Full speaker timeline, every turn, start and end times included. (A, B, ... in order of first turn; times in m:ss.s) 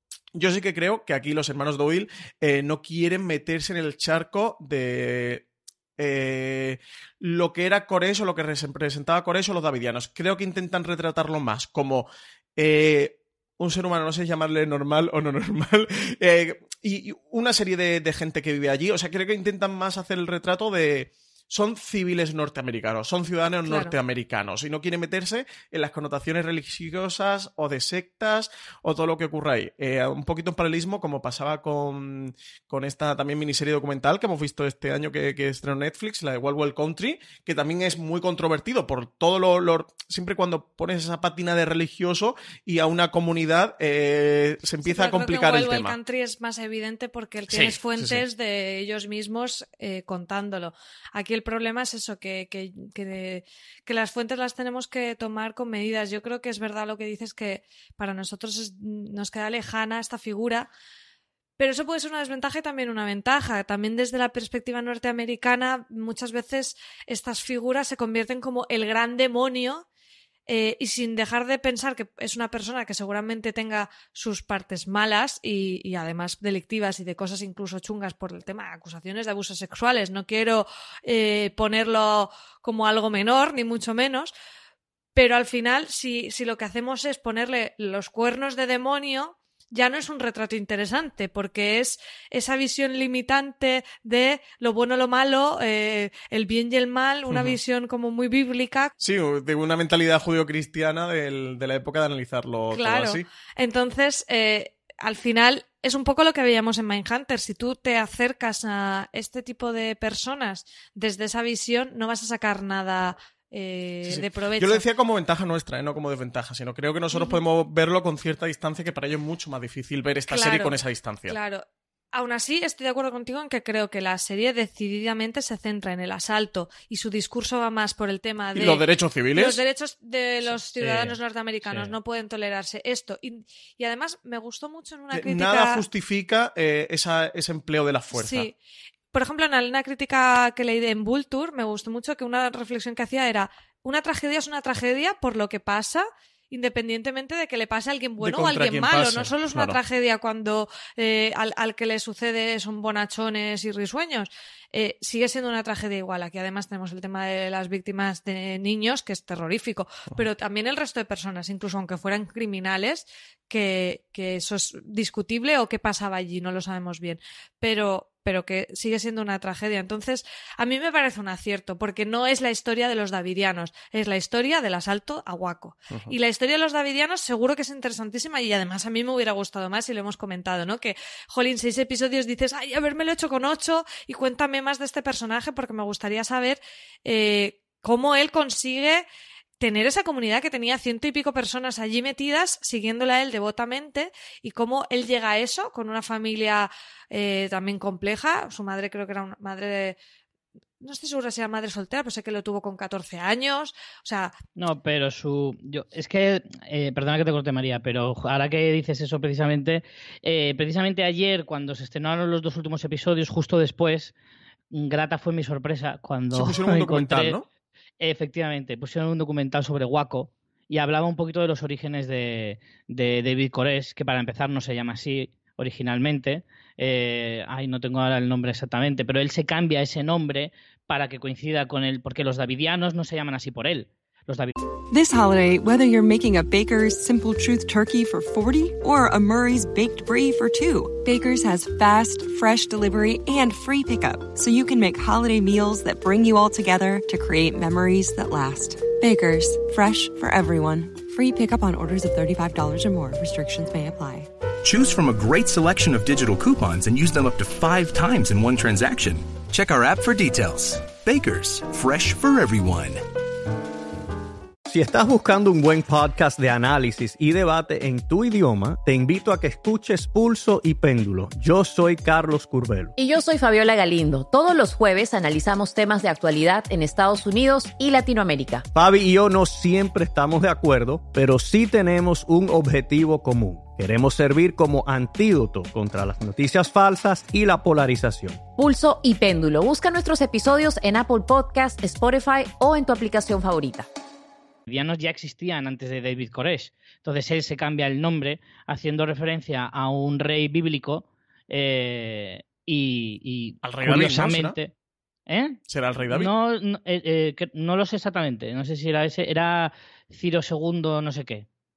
0:00.4-0:05.4 A
0:06.0-0:46.0 A
0:23.7-0:24.0 B
0:44.8-1:00.7 B
0:47.5-0:48.2 A
1:01.6-1:09.8 B
1:10.5-1:24.3 B
1:25.2-1:38.9 B
1:37.3-1:37.6 A
1:39.0-1:43.2 A
1:42.7-1:54.8 B
1:54.0-2:01.4 A
1:57.1-1:57.4 B
2:00.3-2:00.8 B
2:01.3-2:08.8 B
2:08.6-2:09.6 A
2:09.4-2:15.8 B
2:10.8-2:11.9 C
2:15.1-2:18.5 A
2:18.1-2:18.6 B
2:19.1-3:09.0 B
2:28.2-2:29.8 A
3:09.6-3:20.0 B
3:20.8-3:24.3 B
3:24.6-3:34.1 C
3:34.7-3:37.4 C
3:36.3-3:37.4 A
3:38.0-3:54.5 C
3:54.9-4:14.3 D
4:14.6-4:23.0 E
4:24.7-4:32.9 F
4:33.0-4:38.7 G
4:38.7-4:48.4 F
4:48.6-4:53.9 G
4:54.7-5:04.7 C
5:03.6-5:04.6 A
5:05.3-5:05.6 C
5:05.7-5:06.3 A
5:06.1-5:11.5 C